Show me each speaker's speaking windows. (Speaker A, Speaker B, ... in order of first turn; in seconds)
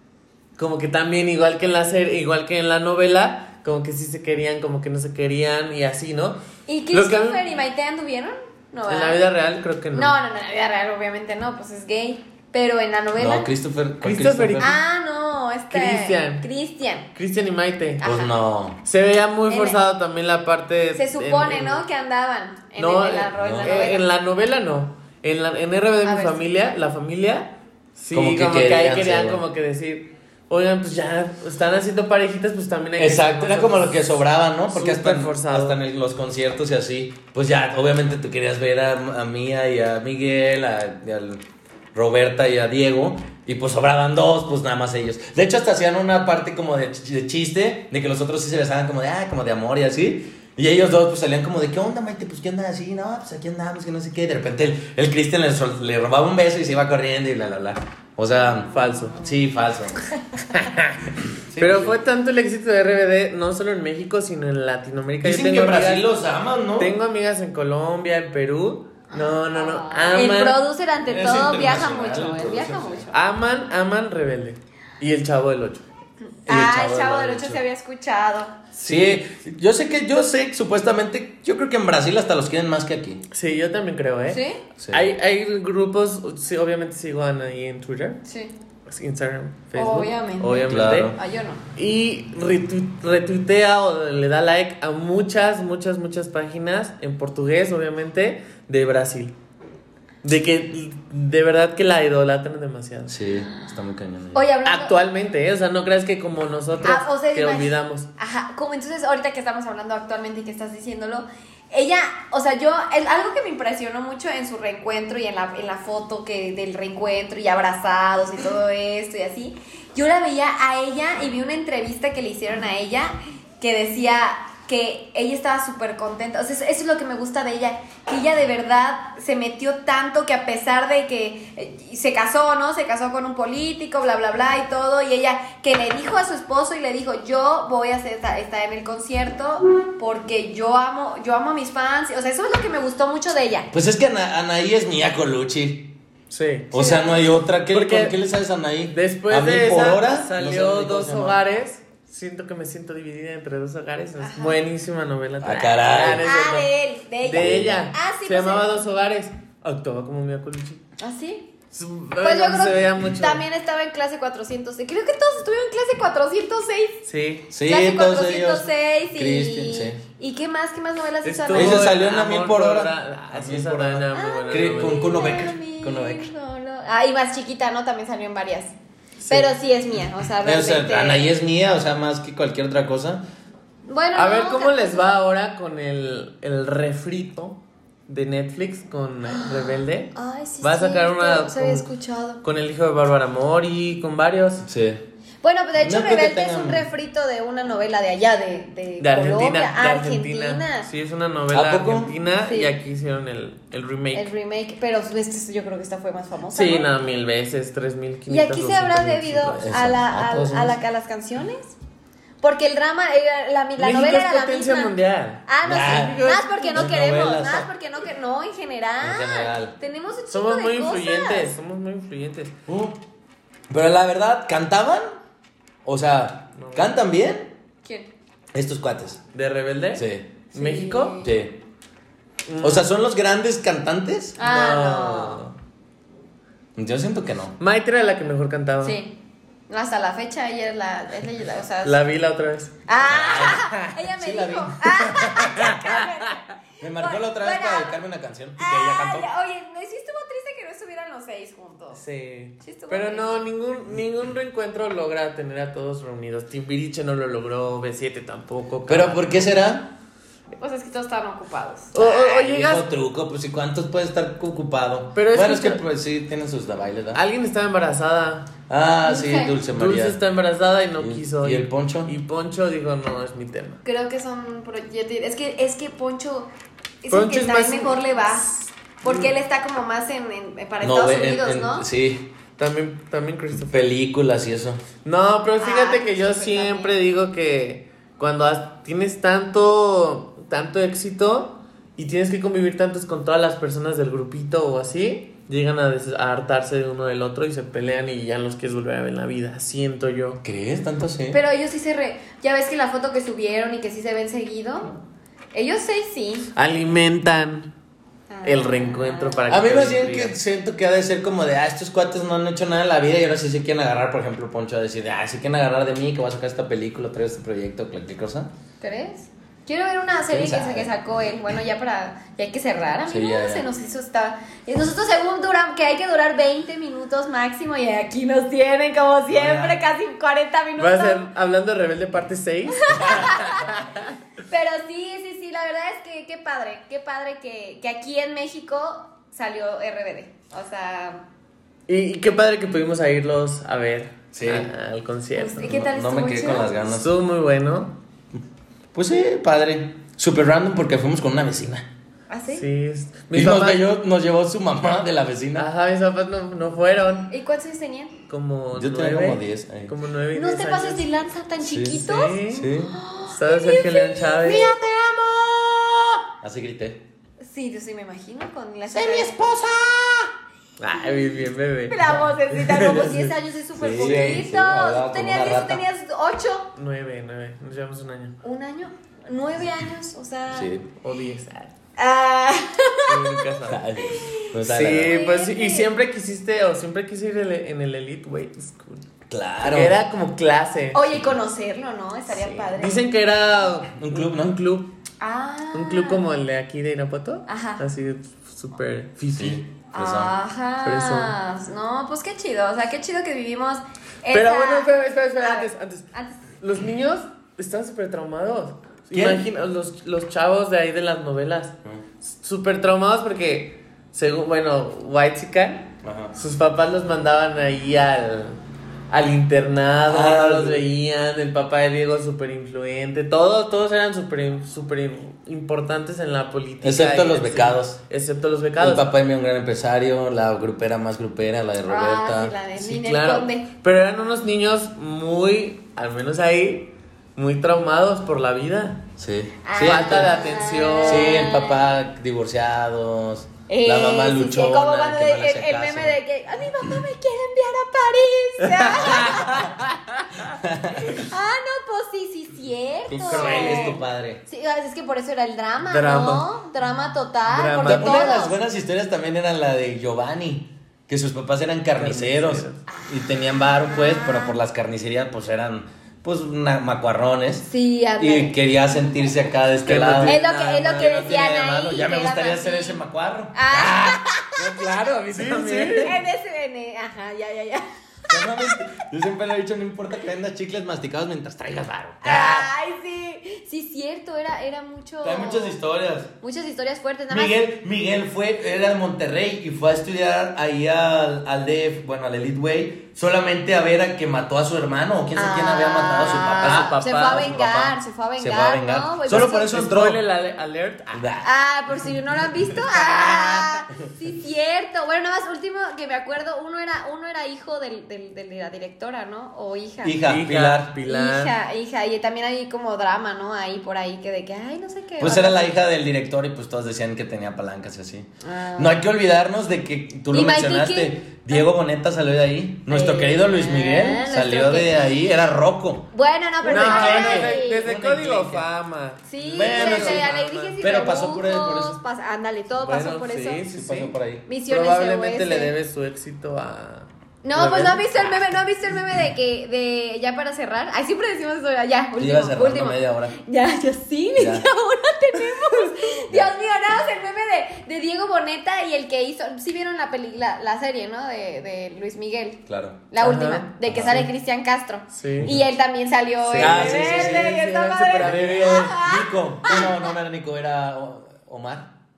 Speaker A: 0.6-7.4, 8.9-10.2, 14.0-14.8, 15.7-16.5, 17.1-18.0, 18.9-21.8, 22.8-34.1, 34.7-35.8, 58.7-59.2, 60.5-66.1, 66.8-70.6, 73.1-75.9, 78.8-79.2, 83.3-88.2, 88.9-91.2, 91.8-99.3, 100.2-103.2, 104.7-108.1, 146.3-146.7, 147.7-148.2, 148.9-156.7, 157.2-160.8, 161.7-163.4, 167.1-167.5, 171.2-175.2, 179.2-179.5, 184.2-191.9, 192.4-194.7, 199.0-204.3, 206.5-209.8, 213.8-216.9, 220.3-222.6, 226.6-227.0, 229.3-231.2, 232.5-232.9, 234.4-235.5, 237.6-239.0, 241.8-242.8, 251.9-259.4, 261.9-262.9, 265.1-265.8, 267.1-268.5, 269.7-273.8, 277.1-279.3, 282.6-283.9, 285.1-300.4, 306.6-307.7, 308.4-310.4, 330.8-334.1, 341.9-345.7, 346.9-348.0, 352.5-353.8, 355.6-357.3, 358.3-361.0, 361.9-364.7, 370.8-373.3, 376.8-378.4, 381.0-381.7, 383.1-383.8, 384.6-389.1, 389.6-391.1, 392.3-394.9, 395.7-399.7, 400.8-401.4, 404.3-429.1, 432.8-439.1, 439.8-441.5, 448.6-449.8, 453.1-454.0, 455.9-456.5, 457.5-458.4, 462.0-462.8, 469.9-471.4, 474.6-476.2, 496.6-497.8, 499.3-501.3, 510.2-511.5, 526.6-530.8, 532.8-538.4, 553.2-554.3, 555.1-555.5, 556.5-558.9
Speaker B: 6.7-9.2, 9.9-13.5, 14.6-17.1, 18.0-18.3, 19.5-19.8, 21.0-24.1, 26.0-26.4, 69.5-73.2, 76.5-78.6, 84.3-84.6, 88.3-88.5, 89.7-91.6, 104.3-105.0, 106.8-143.7, 146.7-147.3, 154.2-154.6, 156.2-158.8, 161.0-161.5, 162.2-167.0, 167.7-171.9, 174.1-178.7, 179.3-181.3, 183.9-185.2, 189.3-192.4, 195.4-200.9, 202.4-202.7, 204.1-206.9, 208.3-211.8, 212.4-214.9, 215.5-221.6, 227.8-228.1, 230.5-231.3, 234.4-235.4, 238.8-242.0, 242.9-248.0, 248.6-252.0, 252.6-253.5, 260.6-261.9, 269.1-269.6, 273.9-276.5, 277.0-281.9, 285.6-286.9, 301.3-305.0, 305.5-306.5, 308.3-309.5, 318.8-331.2, 332.8-333.8, 334.5-341.2, 345.4-346.8, 352.3-352.7, 357.3-358.1, 360.3-364.7, 367.4-369.4, 371.9-376.7, 378.4-380.7, 382.0-384.5, 385.1-385.9, 390.9-393.1, 395.2-396.3, 397.5-397.8, 399.9-406.4, 431.9-433.7, 439.6-441.9, 443.7-449.8, 451.0-458.6, 462.9-464.6, 467.6-468.6, 470.2-473.0, 473.5-474.6, 476.0-478.8, 482.2-485.8, 486.4-487.6, 495.4-499.8, 501.4-510.2, 511.1-515.7, 518.4-519.0, 520.3-521.7, 522.9-525.1, 526.1-527.8, 529.3-533.7, 534.5-535.7, 537.4-560.1
Speaker C: 13.2-14.7, 18.0-18.8, 23.4-23.8, 28.1-29.4, 33.0-41.4, 41.9-60.0, 61.5-62.0, 65.2-67.0, 71.1-73.1, 76.5-77.6, 78.8-83.2, 84.8-85.1, 90.7-91.2, 103.1-104.5, 143.7-146.0, 146.7-151.4, 155.4-156.3, 157.3-157.9, 167.5-170.0, 171.5-176.3, 180.4-183.2, 194.7-195.1, 195.8-196.9, 201.5-202.2, 209.6-210.8, 215.6-217.7, 219.0-219.8, 222.7-223.0, 223.7-225.1, 225.8-227.5, 228.5-229.2, 229.9-230.4, 231.2-231.6, 232.6-234.4, 236.8-237.6, 243.0-246.1, 246.8-249.3, 258.9-259.9, 261.9-267.2, 268.7-270.2, 271.0-272.1, 280.8-282.3, 283.5-284.8, 300.4-301.4, 309.5-318.5, 320.3-320.9, 323.1-323.6, 329.3-329.8, 344.3-344.7, 345.6-347.1, 348.9-351.9, 353.3-355.7, 358.8-359.9, 361.6-363.0, 364.4-367.0, 368.9-370.3, 373.7-375.8, 380.5-380.9, 383.7-385.2, 389.3-390.0, 393.9-394.6, 399.4-400.3, 409.1-409.5, 416.0-416.3, 420.1-420.9, 426.8-428.0, 428.8-432.6, 439.2-440.3, 441.0-446.2, 449.2-449.6, 450.5-451.3, 453.1-454.4, 457.8-474.2, 475.3-476.2, 478.3-482.7, 485.2-486.3, 487.3-500.2, 501.1-501.5, 502.9-503.6, 510.0-510.9, 515.2-526.1, 526.6-528.7, 529.4-532.0, 533.7-534.5, 542.2-543.4, 544.4-544.7, 552.7-553.0, 553.9-554.2, 555.4-555.7, 556.5-557.6, 558.2-561.9